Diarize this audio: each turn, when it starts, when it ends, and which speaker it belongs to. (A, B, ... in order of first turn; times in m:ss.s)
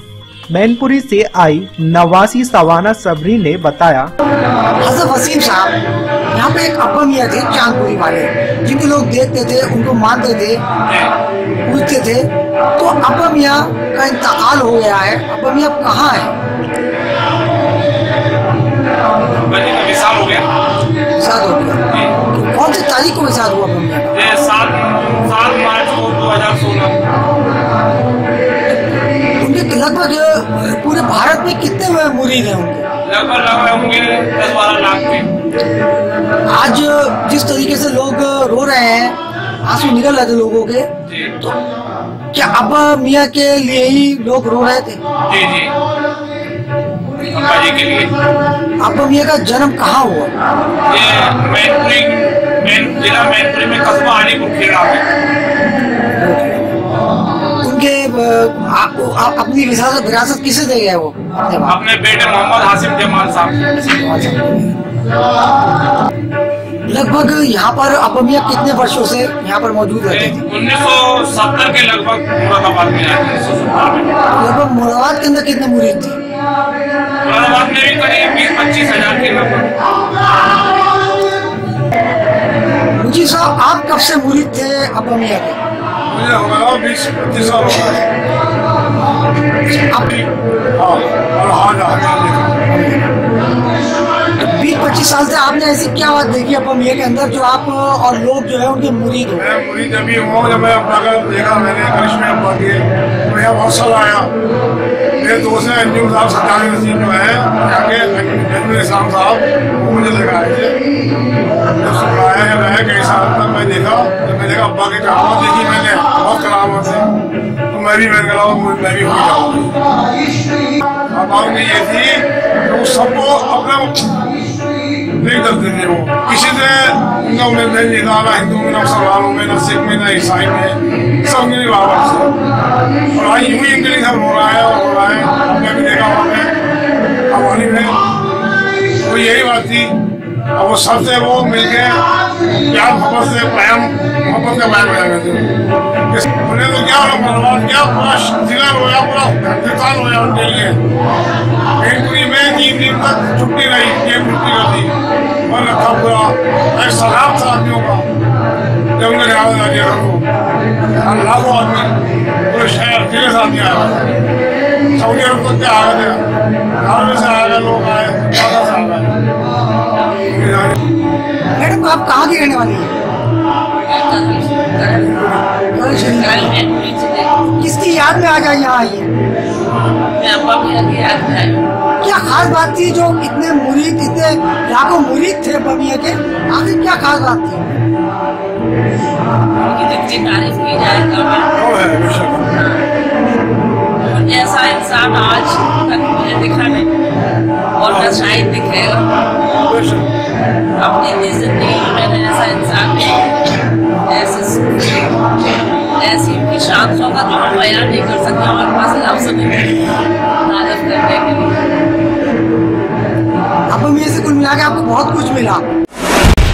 0:00.5-0:04.1 A
0:04.8-0:05.8 B
0:06.3-0:10.6 B
0:11.6-0:16.3 B
0:19.4-0:20.5 C
0:21.2-0:24.2 B
0:24.1-0:27.0 C
0:29.4-0:32.8 B
0:33.0-0:35.3 C
0:36.5-0:40.8 B
0:41.1-0:41.3 C
0:42.3-0:45.0 B
0:45.3-0:45.7 C
0:47.2-0:48.1 C
0:48.8-0:50.3 B
0:50.9-0:55.1 C
0:56.2-0:56.6 B
0:57.6-1:01.8 B
1:01.7-1:03.8 C
1:04.0-1:04.7 B
1:06.9-1:10.4 B
1:10.1-1:14.2 C
1:14.3-1:16.2 B
1:17.2-1:19.7 C
1:22.9-1:25.6 B
1:26.1-1:28.1 D
1:29.7-1:30.1 B
1:30.1-1:32.6 D
1:32.7-1:33.0 B
1:34.4-1:39.4 B
1:39.4-1:44.3 D
1:45.2-1:50.7 D
1:51.7-1:57.1 D
1:57.7-1:59.7 D
2:01.1-2:04.1 D
2:05.2-2:12.3 D
2:13.1-2:16.5 D
2:17.3-2:18.0 D
2:19.0-2:19.9 D
2:20.6-2:25.5 D
2:26.1-2:30.8 D
2:31.8-2:35.0 D
2:35.5-2:38.0 D
2:39.0-2:40.3 D
2:40.9-2:42.0 D
2:42.5-2:44.1 D
2:44.9-2:46.2 D
2:46.8-2:49.1 D
2:50.3-2:50.8 D
2:51.6-2:52.9 B
2:53.8-2:55.3 E
2:55.7-2:56.5 B
2:56.1-2:57.4 E
2:57.6-2:59.1 B
3:00.1-3:01.7 E
3:02.0-3:07.7 B
3:09.6-3:11.5 E
3:11.5-3:12.5 D
3:14.1-3:16.9 E
3:17.8-3:19.1 E
3:17.8-3:18.2 D
3:19.4-3:20.1 D
3:20.8-3:23.2 E
3:24.0-3:25.1 E
3:26.0-3:31.6 E
3:33.7-3:35.6 B